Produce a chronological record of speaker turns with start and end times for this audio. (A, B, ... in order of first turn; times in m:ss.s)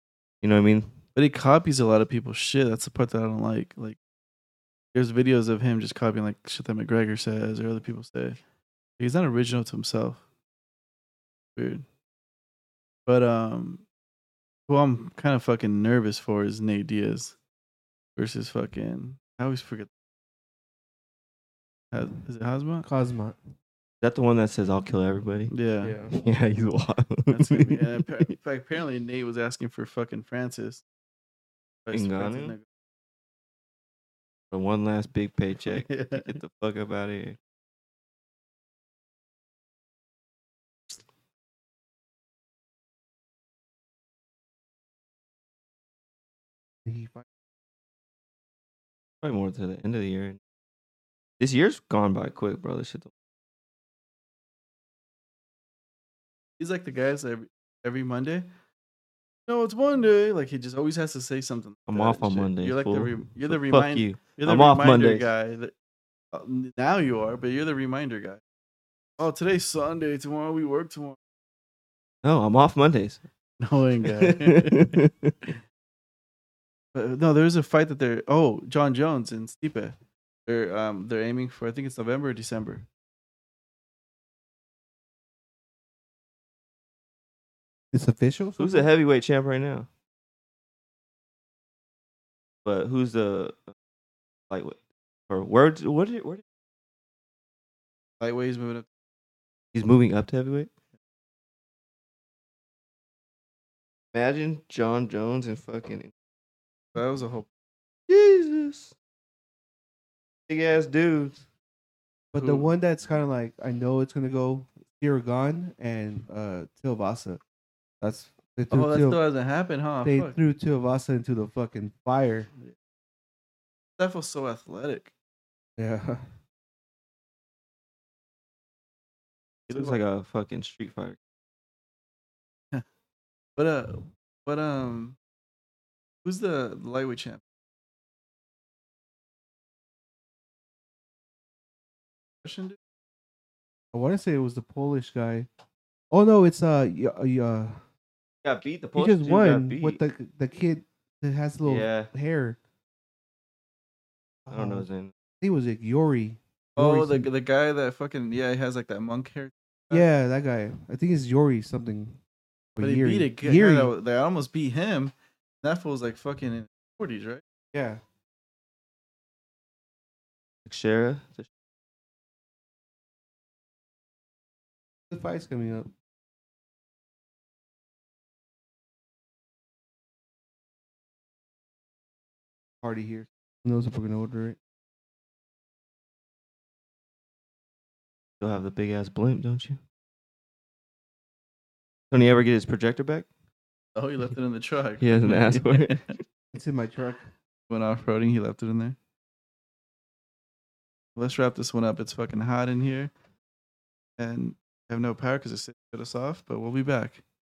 0:00.4-0:00.9 A
0:01.1-0:04.0 B
0:04.9-0:08.4 B
0:09.0-0:10.2 B
0:11.6-0:11.8 B
0:13.0-0:13.8 B
0:14.7-0:17.4 B
0:18.2-0:19.9 B
0:21.9-0:22.8 B
0:22.8-0:23.4 C
0:24.0-0:25.5 A
0:25.5-0:25.9 B
0:25.8-0:26.2 C
0:26.1-0:28.0 A
0:27.3-0:30.8 B
0:31.8-0:32.6 B
0:31.9-0:32.5 A
0:34.5-0:37.4 A
0:35.7-0:36.3 B
0:46.8-0:47.2 C
0:49.2-0:50.4 A
0:51.4-0:53.1 A
0:56.6-0:58.5 B
0:59.5-1:05.7 B
1:01.9-1:05.3 A
1:06.3-1:08.4 B
1:09.2-1:11.2 B
1:12.2-1:13.2 A
1:13.6-1:15.0 B
1:14.0-1:15.4 A
1:16.9-1:22.8 B
1:27.9-1:28.8 C
1:28.6-1:29.9 A
1:32.6-1:33.7 A
1:34.5-1:36.4 A
1:38.2-1:38.9 B
1:39.7-1:40.7 A
1:44.1-1:46.1 A
1:46.9-1:47.5 B
1:48.1-1:48.9 A
1:50.5-1:51.4 A
1:52.3-1:57.4 C
1:52.4-1:52.7 B
1:58.0-1:59.2 C
1:58.7-2:00.4 B
2:00.0-2:02.5 C
2:04.0-2:05.1 B
2:05.8-2:06.2 C
2:09.7-2:10.0 B
2:09.7-2:11.2 A
2:13.6-2:15.2 B
2:16.2-2:17.4 B
2:22.4-2:22.8 B
2:23.9-2:25.5 C
2:26.1-2:27.8 C
2:28.4-2:30.0 A
2:28.9-2:32.6 C
2:31.6-2:32.1 A
2:34.5-2:34.8 C
2:34.5-2:35.1 A
2:35.4-2:37.3 C
2:36.8-2:40.0 B
2:39.9-2:42.2 C
2:42.8-2:43.9 C
2:42.8-2:47.4 B
2:47.7-2:48.0 C
2:50.6-2:51.5 A
2:55.1-2:55.9 C
3:02.8-3:04.6 C
3:08.4-3:09.8 A
3:12.1-3:13.3 A
3:14.0-3:16.1 B
3:15.0-3:16.2 A
3:16.5-3:17.3 C
3:17.7-3:19.0 B
3:21.2-3:23.1 B
3:24.2-3:27.2 B